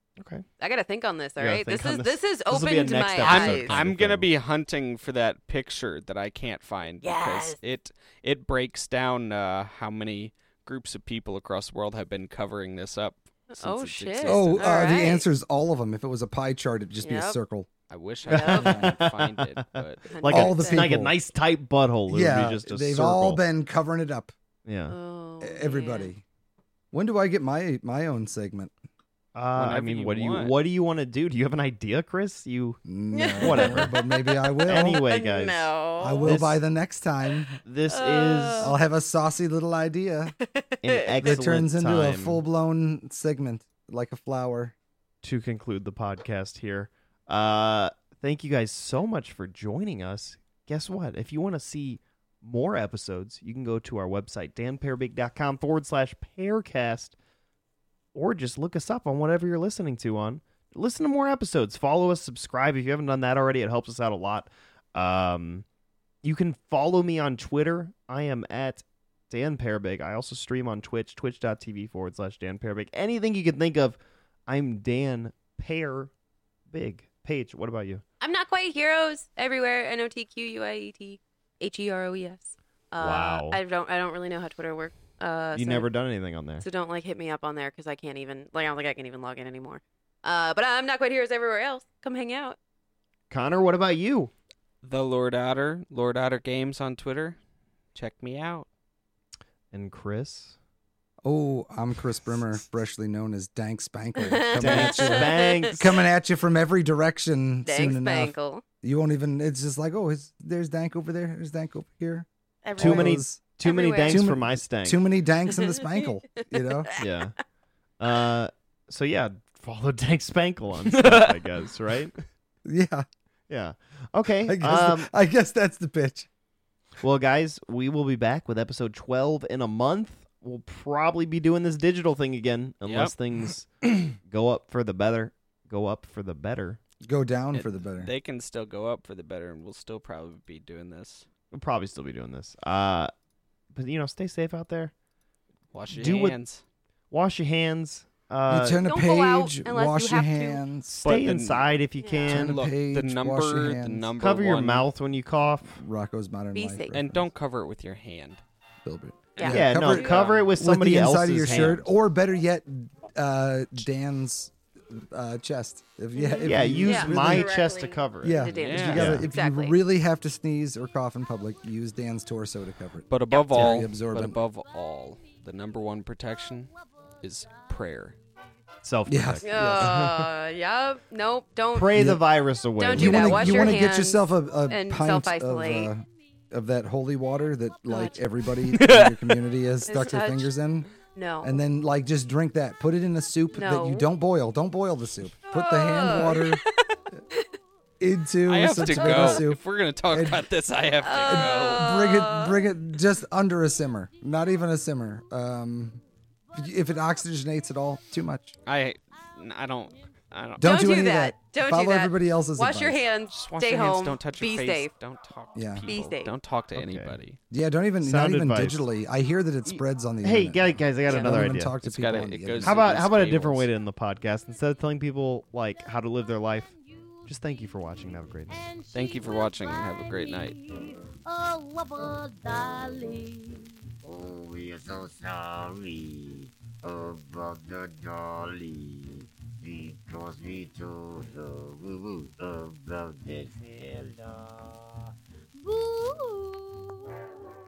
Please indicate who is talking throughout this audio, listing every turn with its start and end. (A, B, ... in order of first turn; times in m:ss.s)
0:00.2-0:00.4 A
0:00.6-0:03.8 B
0:01.4-0:04.3 A
0:03.2-0:15.0 C
0:07.0-0:07.6 B
0:13.5-0:15.2 B
0:14.2-0:17.7 D
0:17.0-0:17.4 B
0:17.9-0:20.0 C
0:18.3-0:23.4 A
0:18.3-0:18.9 B
0:20.1-0:20.9 B
0:20.2-0:21.1 D
0:22.1-0:24.3 D
0:24.6-0:24.9 A
0:24.9-0:26.1 B
0:25.4-0:26.2 D
0:26.9-0:28.7 D
0:29.3-0:32.8 A
0:29.5-0:30.5 C
0:32.8-0:35.0 D
0:33.1-0:36.4 B
0:33.4-0:33.9 A
0:34.6-0:35.7 A
0:36.0-0:37.6 D
0:36.2-0:36.6 A
0:37.6-0:38.8 A
0:37.9-0:38.7 B
0:38.6-0:40.3 D
0:40.4-0:41.4 B
0:40.8-0:42.4 A
0:41.2-0:44.7 D
0:45.2-0:57.1 A
0:58.1-1:05.6 A
1:06.2-1:16.1 A
1:16.7-1:18.0 A
1:18.2-1:25.9 B
1:23.0-1:23.6 A
1:25.5-1:26.6 A
1:26.6-1:32.6 B
1:33.3-1:34.3 A
1:34.8-1:37.4 C
1:37.9-1:38.6 C
1:39.7-1:40.5 A
1:41.2-1:53.5 D
1:44.2-1:45.8 B
1:44.6-1:45.8 A
1:47.6-1:48.6 B
1:52.6-1:54.3 B
1:52.8-1:55.0 A
1:54.0-1:56.9 D
1:55.5-1:57.1 B
1:57.0-1:57.3 A
1:58.0-2:02.1 A
2:00.9-2:01.4 C
2:02.6-2:03.0 D
2:03.5-2:05.1 A
2:04.4-2:06.3 D
2:07.0-2:16.8 A
2:12.8-2:13.1 C
2:17.0-2:18.1 D
2:17.5-2:21.2 C
2:21.5-2:23.1 A
2:23.7-2:24.9 A
2:25.7-2:26.6 C
2:25.9-2:26.4 A
2:27.1-2:28.8 A
2:28.5-2:31.1 D
2:28.8-2:30.6 B
2:31.0-2:31.7 C
2:31.0-2:32.6 A
2:32.0-2:32.3 B
2:32.2-2:34.9 C
2:32.3-2:34.1 D
2:34.2-2:35.8 A
2:35.7-2:37.3 D
2:36.5-2:36.9 B
2:36.9-2:38.4 C
2:38.8-2:47.5 D
2:39.4-2:40.3 B
2:39.4-2:40.4 C
2:39.4-2:41.9 A
2:46.1-2:49.8 B
2:46.4-2:49.2 A
2:48.2-2:54.4 D
2:48.6-2:49.2 C
2:53.1-2:56.7 C
2:53.3-2:53.8 B
2:54.6-2:55.4 E
2:57.2-2:58.2 C
2:58.8-3:00.3 A
2:59.0-3:00.0 D
2:59.4-3:02.1 B
3:01.7-3:03.8 A
3:01.9-3:02.2 D
3:02.8-3:05.9 B
3:02.9-3:10.9 D
3:07.9-3:08.2 B
3:08.7-3:09.4 C
3:09.8-3:10.5 B
3:11.1-3:11.5 B
3:11.4-3:16.6 D
3:13.5-3:14.1 B
3:15.5-3:17.5 B
3:18.0-3:20.5 D
3:18.4-3:22.0 C
3:21.0-3:22.7 B
3:21.2-3:26.0 D
3:26.6-3:28.6 D
3:26.6-3:27.2 E
3:28.6-3:30.9 C
3:30.6-3:33.1 D
3:30.6-3:34.9 B
3:33.3-3:37.4 C
3:35.5-3:35.9 D
3:35.9-3:36.3 B
3:36.7-3:37.2 A
3:37.5-3:43.0 D
3:38.0-3:38.8 A
3:39.7-3:41.8 A
3:41.8-3:43.7 C
3:42.6-3:46.7 A
3:46.6-3:47.6 E
3:47.3-3:48.7 A
3:48.5-3:56.0 E
3:48.9-3:50.5 C
3:56.9-3:57.8 E
3:59.7-4:00.9 E
4:01.4-4:01.9 E
4:02.5-4:04.1 E
4:05.6-4:07.3 E